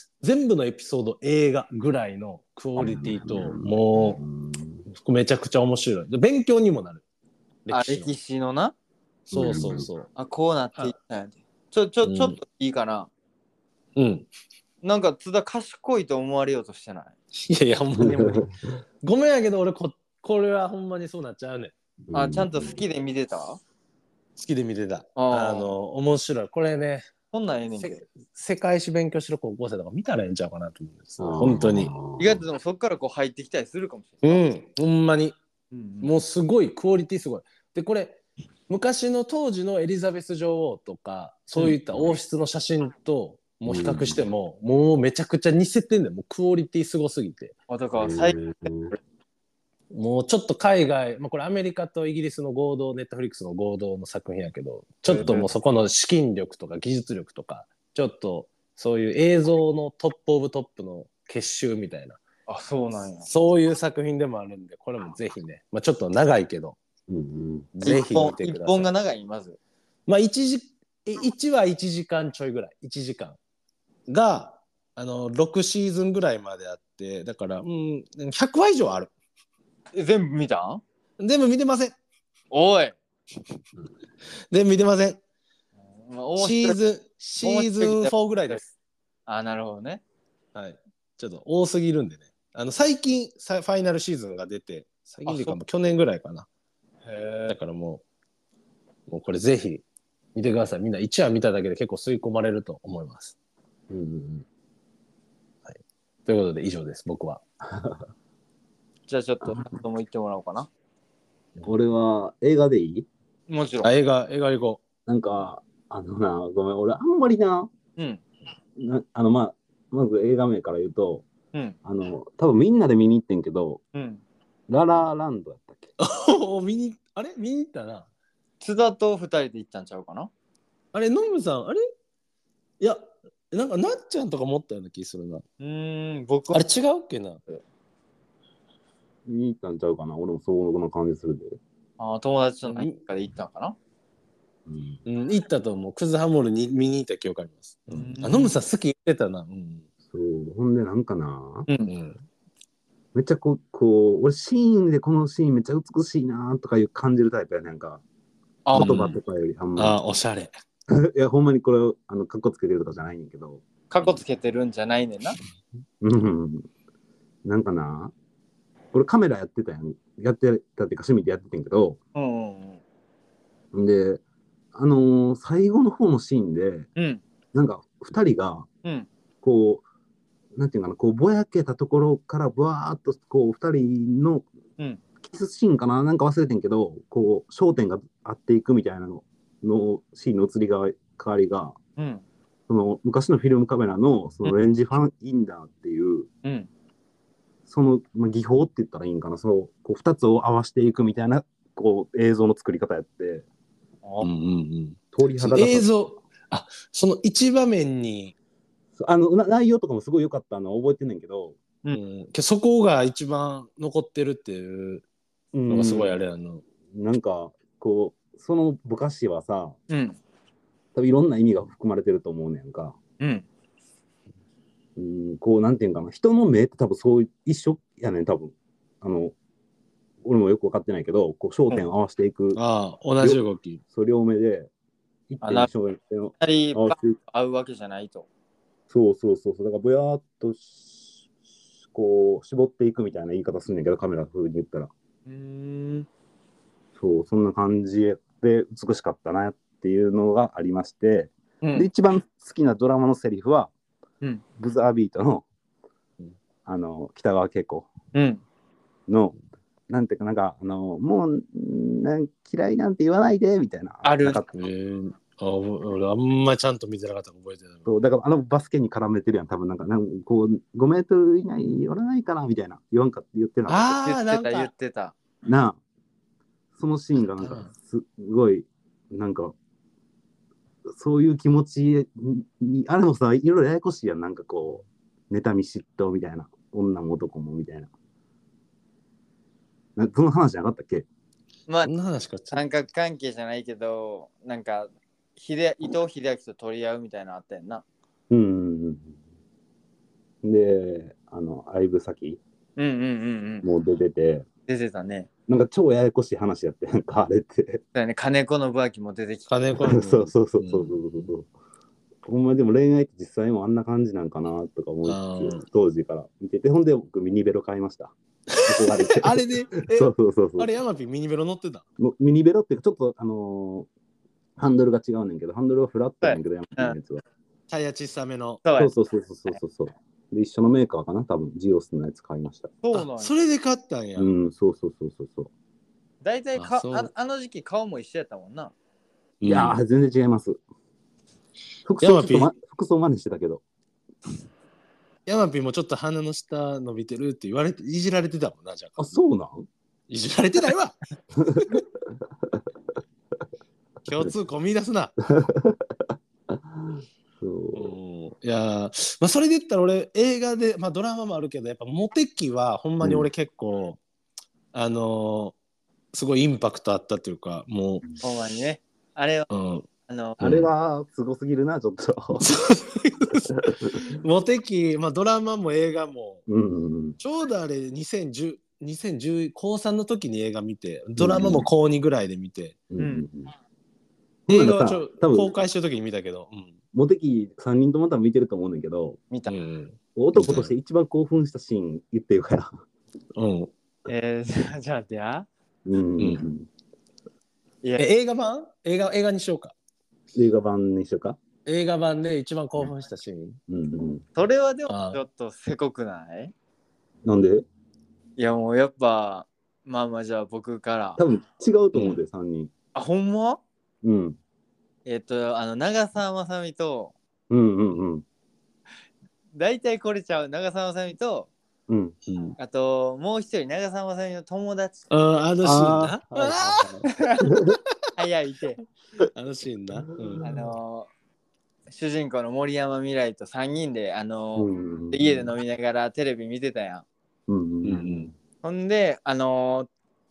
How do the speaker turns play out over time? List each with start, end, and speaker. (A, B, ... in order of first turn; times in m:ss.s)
0:00.2-0:04.2 A
0:02.8-0:04.8 B
0:04.9-0:07.0 A
0:07.6-0:08.1 A
0:07.7-0:08.7 C
0:09.3-0:09.9 B
0:09.3-0:10.1 A
0:10.1-0:13.1 C
0:12.0-0:12.4 A
0:14.0-0:14.2 A
0:14.8-0:17.1 C
0:17.4-0:18.5 A
0:18.0-0:18.4 B
0:19.0-0:21.7 A
0:22.1-0:22.8 B
0:22.1-0:23.6 C
0:24.4-0:27.1 A
0:25.2-0:25.7 C
0:27.3-0:28.0 C
0:27.8-0:31.9 A
0:31.2-0:32.4 B
0:32.2-0:34.4 C
0:34.2-0:35.4 A
0:35.7-0:36.1 C
0:36.0-0:47.6 A
0:41.6-0:42.1 B
0:43.6-0:44.2 B
0:47.7-0:48.4 C
0:48.0-0:48.9 B
0:49.9-1:02.2 A
0:55.1-0:55.5 C
1:02.5-1:03.3 C
1:03.2-1:06.8 A
1:07.1-1:07.7 B
1:07.7-1:08.9 A
1:07.8-1:09.6 C
1:10.1-1:13.4 A
1:14.1-1:19.1 A
1:19.9-1:20.8 C
1:21.2-1:22.0 A
1:22.5-1:23.0 C
1:24.5-1:25.2 A
1:26.1-1:26.8 C
1:26.4-1:28.7 A
1:27.4-1:28.6 C
1:29.3-1:30.0 C
1:30.5-1:36.5 A
1:35.2-1:35.6 C
1:37.0-1:37.6 C
1:37.5-1:38.0 A
1:39.1-1:39.8 A
1:40.3-1:43.3 A
1:43.9-1:44.4 B
1:45.7-1:47.4 A
1:47.6-1:48.0 B
1:49.1-1:50.7 C
1:51.6-1:53.1 B
1:53.5-1:53.9 C
1:53.8-1:54.8 A
1:55.1-1:57.7 B
1:58.0-1:58.2 C
1:58.8-2:01.2 B
2:01.8-2:03.8 B
2:03.9-2:04.2 C
2:04.7-2:05.9 B
2:06.0-2:08.1 A
2:08.6-2:10.3 C
2:10.9-2:11.8 A
2:12.8-2:15.4 A
2:15.6-2:16.6 C
2:16.5-2:17.4 A
2:19.2-2:21.6 B
2:22.0-2:23.8 C
2:22.6-2:22.9 A
2:24.6-2:25.0 B
2:25.0-2:29.8 A
2:27.9-2:28.6 C
2:30.1-2:31.7 B
2:31.7-2:31.9 C
2:31.9-2:32.2 A
2:33.1-2:38.0 B
2:38.6-2:39.0 C
2:38.7-2:40.0 B
2:38.7-2:39.2 A
2:39.8-2:40.5 A
2:40.9-2:43.6 B
2:43.9-2:45.4 C
2:46.0-2:46.7 B
2:47.4-2:48.1 B
2:48.9-2:52.0 B
2:52.1-2:52.8 C
2:53.7-2:54.2 B
2:54.7-2:56.9 B
2:57.0-2:57.2 C
2:57.5-2:58.7 B
2:59.4-2:59.8 B
3:00.6-3:04.5 B
3:05.2-3:11.8 B
3:12.0-3:12.2 C
3:12.7-3:16.3 B
3:16.4-3:16.7 C
3:17.7-3:23.4 B
3:24.0-3:24.3 C
3:24.2-3:28.3 A
3:25.1-3:25.9 B
3:29.0-3:31.6 B
3:31.9-3:35.0 A
3:35.5-3:36.2 B
3:35.7-3:36.6 A
3:36.9-3:39.8 B
3:39.9-3:40.2 C
3:40.9-3:43.0 B
3:43.2-3:43.4 C
3:45.0-3:49.4 B
3:50.2-3:52.6 B
3:52.5-3:53.8 A
3:53.2-3:54.7 B
3:55.3-3:57.2 B
3:55.4-3:55.7 C
3:56.4-3:58.3 C
3:58.9-4:01.2 B
4:01.9-4:04.9 B
4:05.2-4:06.1 C
4:07.0-4:13.7 B
4:11.6-4:11.9 C
4:14.6-4:15.4 B
4:16.6-4:17.9 B
4:18.1-4:18.4 C
4:19.1-4:19.4 B
4:19.9-4:24.7 B
4:24.0-4:24.4 C
4:24.5-4:27.9 A
4:27.8-4:34.0 B
4:33.7-4:34.7 A
4:34.0-4:35.1 C
4:35.4-4:35.8 B
4:36.8-4:39.5 B
4:37.3-4:37.7 A
4:40.9-4:47.9 B
4:50.0-4:51.0 B
4:51.7-4:51.9 C
4:51.8-4:52.6 A
4:52.5-4:57.8 C
4:58.3-4:59.2 B
5:00.4-5:02.4 B
5:02.8-5:03.6 C
5:03.6-5:04.5 B
5:04.7-5:05.3 C
5:05.5-5:07.8 B
5:07.9-5:09.7 C
5:09.5-5:11.3 A
5:09.9-5:11.5 B
5:12.2-5:20.8 B
5:15.0-5:15.6 A
5:18.5-5:21.8 A
5:22.0-5:23.9 B
5:24.6-5:27.2 B
5:26.2-5:27.0 C
5:27.7-5:28.6 A
5:28.6-5:28.9 C
5:28.8-5:32.7 B
5:32.8-5:33.3 C
5:32.9-5:34.3 A
5:34.2-5:35.5 B
5:36.2-5:38.7 C
5:36.6-5:37.1 A
5:39.4-5:39.8 A
5:39.4-5:40.6 B
5:41.8-5:43.6 B
5:42.0-5:42.5 A
5:45.2-5:49.2 A
5:49.0-5:49.7 B
5:50.1-5:51.0 A
5:51.4-5:51.8 B
5:54.0-5:55.1 A
5:55.3-5:58.0 B
5:57.7-6:04.0 A
6:03.0-6:03.3 B
6:04.7-6:05.5 A
6:06.1-6:08.1 A
6:08.2-6:09.5 C
6:09.5-6:09.9 A
6:10.1-6:10.4 C
6:10.4-6:10.7 A
6:10.4-6:12.5 B
6:12.4-6:16.4 A
6:16.5-6:17.2 B
6:17.2-6:22.8 A
6:21.2-6:21.7 B
6:22.9-6:23.5 B
6:23.0-6:23.2 C
6:24.5-6:25.6 B
6:24.5-6:26.8 A
6:26.9-6:29.2 B
6:29.5-6:30.7 A
6:30.2-6:32.8 B
6:33.4-6:33.7 A
6:34.1-6:35.5 C
6:35.8-6:36.7 B
6:36.2-6:36.4 A
6:38.0-6:39.7 A
6:40.3-6:41.4 B
6:41.6-6:43.6 A
6:43.7-6:44.2 B
6:44.4-6:46.5 C
6:44.9-6:45.2 A
6:47.2-6:47.6 B
6:48.4-6:51.2 C
6:51.2-6:52.7 B
6:52.9-6:53.6 C
6:54.0-6:54.4 B
6:55.0-6:57.1 C
6:57.5-6:58.2 B
6:59.5-7:01.5 C
7:01.9-7:02.1 B
7:02.3-7:02.6 A
7:02.6-7:05.1 C
7:05.1-7:07.0 A
7:05.6-7:07.8 B
7:07.1-7:07.5 C
7:08.2-7:08.8 C
7:09.3-7:10.5 A
7:10.0-7:10.7 B
7:10.4-7:11.1 C
7:11.9-7:17.0 C
7:14.6-7:15.5 B
7:17.5-7:18.3 B
7:17.8-7:18.3 A
7:18.6-7:19.9 C